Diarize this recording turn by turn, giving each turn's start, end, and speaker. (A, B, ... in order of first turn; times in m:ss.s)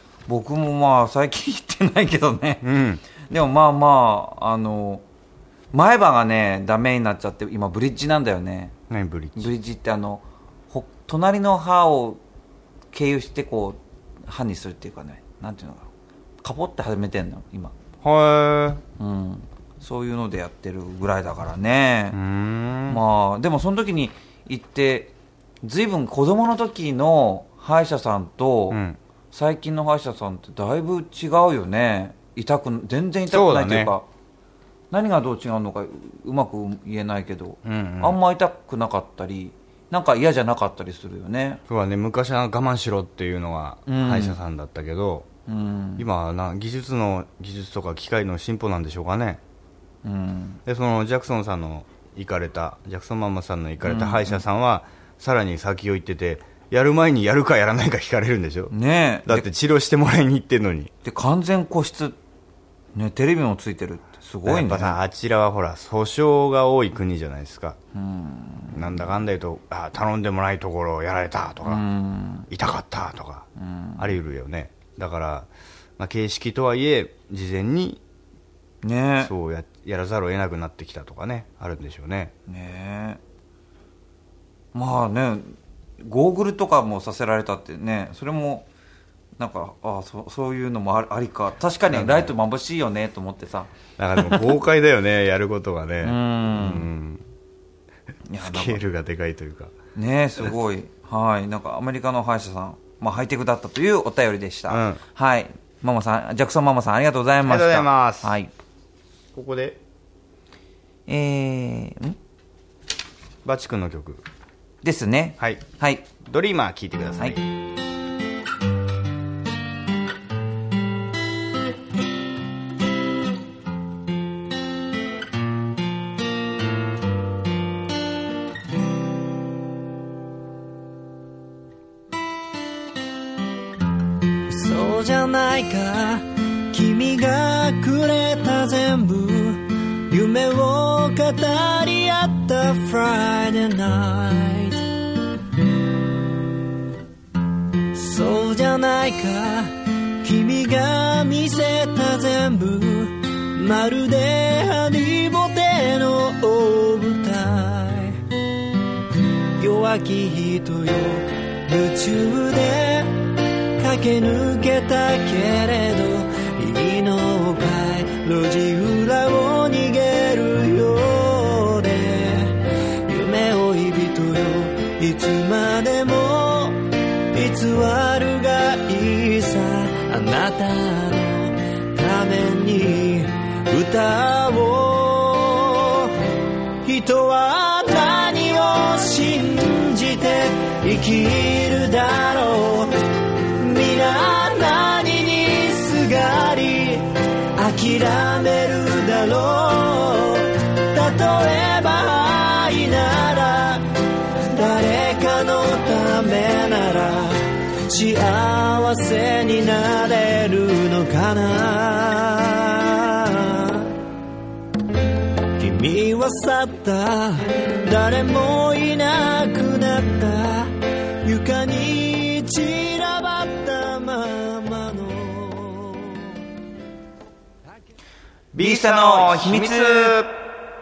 0:00.3-0:02.7 A
0:02.6-0:03.0 B
0:03.3-0:05.0 A
0:05.7-0:08.7 A
0:08.9-0:09.5 B
0:09.4-0:12.2 A
0:12.9-0:15.9 A
0:16.4-0:17.7 A
0:18.0-0:18.8 B
0:19.0-0:22.2 A
0:22.1-0:23.0 B
0:22.9-0:28.8 A
0:28.7-0:29.0 B
0:29.3-0:34.0 A
0:33.3-0:33.9 B
0:34.9-0:41.6 A
0:37.6-0:38.2 B
0:41.7-0:45.3 B
0:43.9-0:44.4 A
0:45.5-0:46.1 A
0:46.0-0:49.4 B
0:50.0-0:50.6 A
0:50.6-0:58.7 B
0:53.8-0:54.4 A
0:58.7-0:59.5 A
0:59.2-1:00.9 B
1:01.0-1:02.2 A
1:02.9-1:05.0 A
1:04.4-1:07.8 B
1:07.9-1:09.0 A
1:08.7-1:11.8 B
1:11.6-1:12.5 A
1:12.5-1:13.5 B
1:13.6-1:14.2 A
1:14.0-1:18.0 B
1:18.8-1:19.3 A
1:19.2-1:22.3 B
1:22.5-1:23.2 A
1:24.7-1:28.7 A
1:29.4-1:34.4 A
1:31.9-1:32.3 B
1:34.0-1:37.2 B
1:36.0-1:36.9 A
1:38.3-1:38.8 A
1:38.4-1:39.8 B
1:40.0-1:48.5 A
1:44.7-1:45.0 B
1:47.4-1:48.4 B
1:49.3-1:49.8 B
1:51.1-1:52.2 A
1:53.4-1:54.2 B
1:54.8-1:56.1 A
1:56.2-1:57.4 B
2:14.5-2:24.8 C
2:27.9-2:38.2 C
2:39.6-3:06.2 C
3:06.8-3:12.9 C
3:13.6-3:23.9 C
3:24.4-3:33.9 C
3:35.6-3:46.4 C
3:48.5-3:50.3 B
3:48.6-3:50.2 A